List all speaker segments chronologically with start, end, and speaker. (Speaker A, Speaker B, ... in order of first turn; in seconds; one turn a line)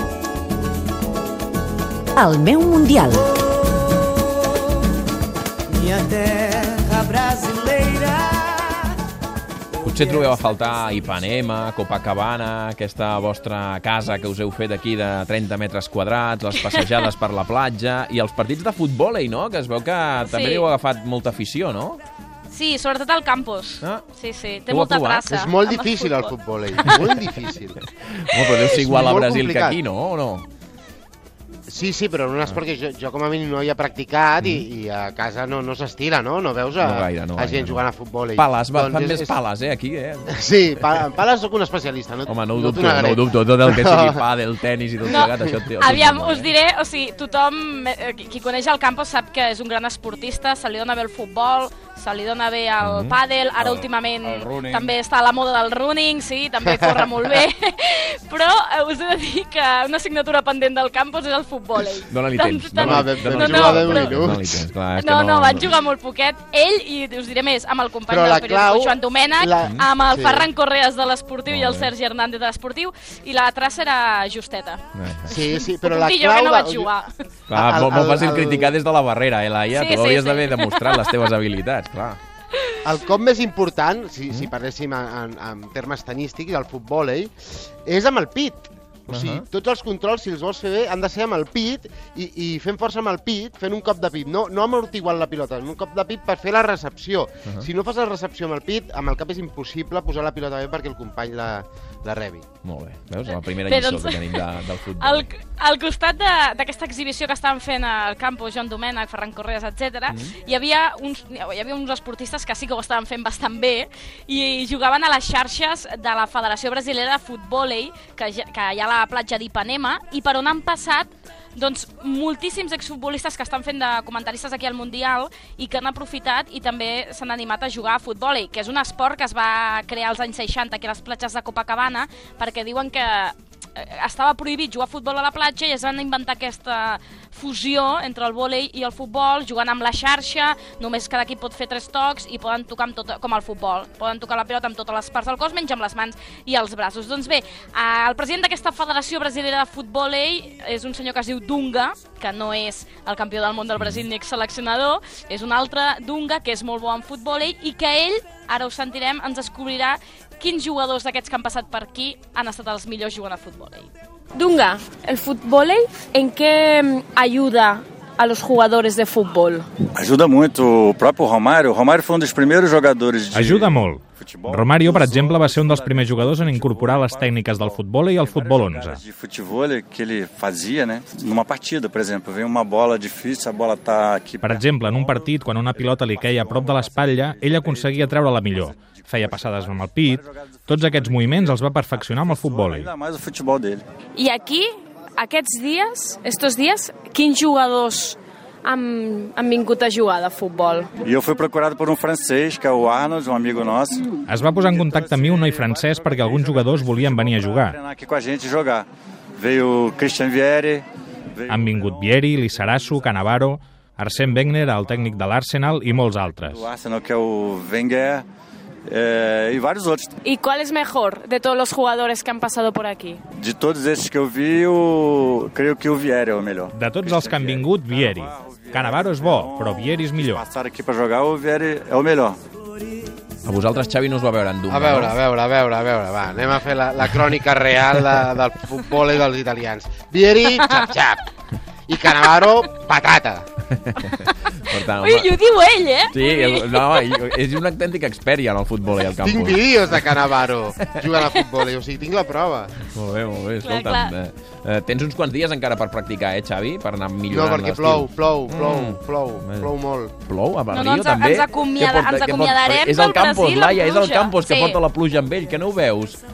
Speaker A: 5.8-8.3
Speaker B: 9.8-22.0
Speaker C: 16.5-17.0
Speaker C: 20.2-20.7
Speaker C: 22.5-27.0
Speaker B: 24.7-25.2
Speaker D: 25.3-27.8
Speaker B: 26.8-27.1
Speaker B: 27.9-30.5
Speaker D: 28.5-29.8
Speaker D: 31.7-39.4
Speaker B: 36.8-37.8
Speaker B: 38.4-40.3
Speaker D: 40.3-44.2
Speaker B: 42.3-46.5
Speaker C: 45.1-64.2
Speaker B: 52.8-53.2
Speaker E: 53.6-54.9
Speaker B: 62.1-65.7
Speaker D: 62.8-64.7
Speaker C: 64.9-77.1
Speaker D: 68.1-70.5
Speaker B: 71.5-71.9
Speaker B: 74.9-75.4
Speaker D: 75.3-76.9
Speaker B: 77.5-82.2
Speaker D: 77.5-78.7
Speaker C: 79.7-81.1
Speaker D: 82.8-102.4
Speaker B: 89.1-89.4
Speaker B: 102.6-105.2
Speaker C: 103.3-163.9
Speaker F: 164.3-169.7
Speaker E: 169.9-193.8
Speaker G: 173.3-179.0
Speaker G: 184.4-192.9
Speaker F: 194.2-200.9
Speaker E: 201.0-208.9
Speaker G: 204.3-207.8
Speaker E: 209.4-210.8
Speaker E: 211.3-212.1
Speaker G: 211.5-216.7
Speaker E: 216.1-218.2
Speaker E: 218.8-220.1
Speaker F: 220.2-223.2
Speaker E: 223.4-232.4
Speaker G: 226.7-230.4
Speaker B: 233.4-235.2
Speaker D: 234.7-241.2
Speaker C: 240.6-240.9
Speaker D: 241.9-243.5
Speaker B: 243.7-245.3
Speaker C: 244.1-247.1
Speaker B: 246.1-250.1
Speaker D: 249.2-252.7
Speaker B: 250.8-251.1
Speaker B: 252.8-259.7
Speaker C: 253.6-254.1
Speaker D: 257.3-260.1
Speaker B: 260.2-266.2
Speaker C: 260.7-264.8